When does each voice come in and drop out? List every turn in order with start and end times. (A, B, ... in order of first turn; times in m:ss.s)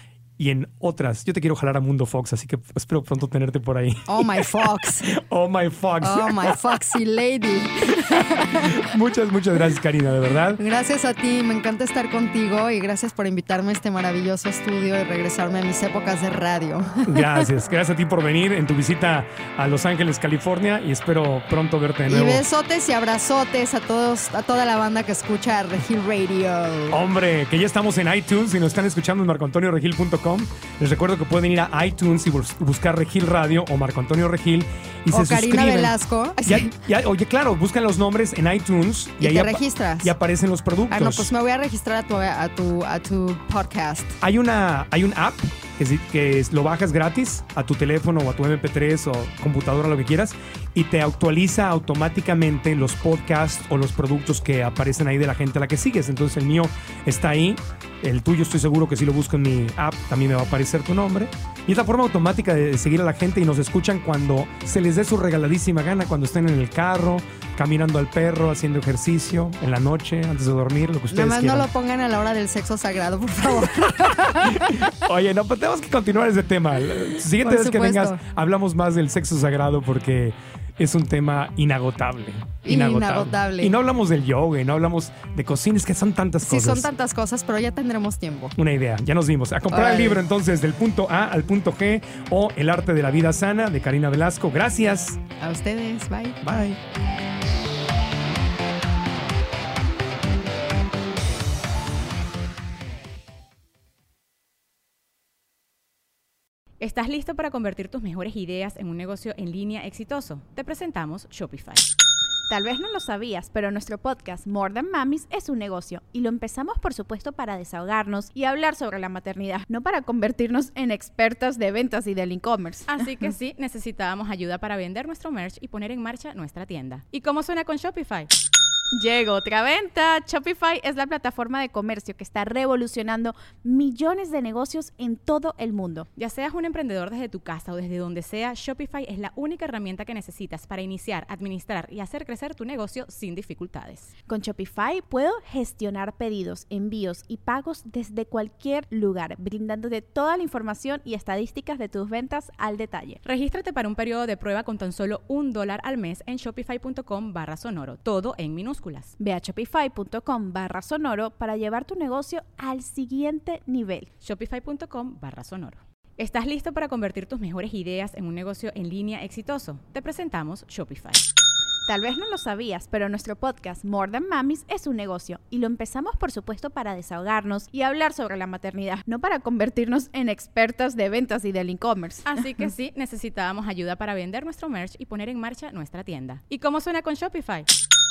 0:00.4-0:06.8 A
0:04.1-0:05.1 B
0:06.0-0:08.8 B
0:08.1-0:10.6 A
0:10.6-0:17.5 B
0:17.0-0:22.4 A
0:22.1-0:27.0 B
0:26.9-0:41.3 A
0:35.1-0:36.8 B
0:39.2-0:40.1 B
0:40.9-0:44.2 B
0:44.2-1:11.7 A
1:11.1-1:14.9 B
1:14.1-1:26.9 A
1:17.4-1:18.2 B
1:22.6-1:23.7 B
1:26.4-1:28.5 B
1:28.6-1:35.2 A
1:29.7-1:30.2 B
1:35.4-1:36.4 B
1:36.4-1:36.8 A
1:46.8-1:51.9 C
1:52.5-2:03.3 D
2:02.9-2:08.3 C
2:08.9-2:16.1 D
2:16.2-2:24.1 C
2:24.3-2:33.2 D
2:33.2-2:39.1 C
2:39.2-2:44.1 D
2:44.2-2:51.2 C
2:51.9-3:02.3 D
3:02.2-3:07.7 C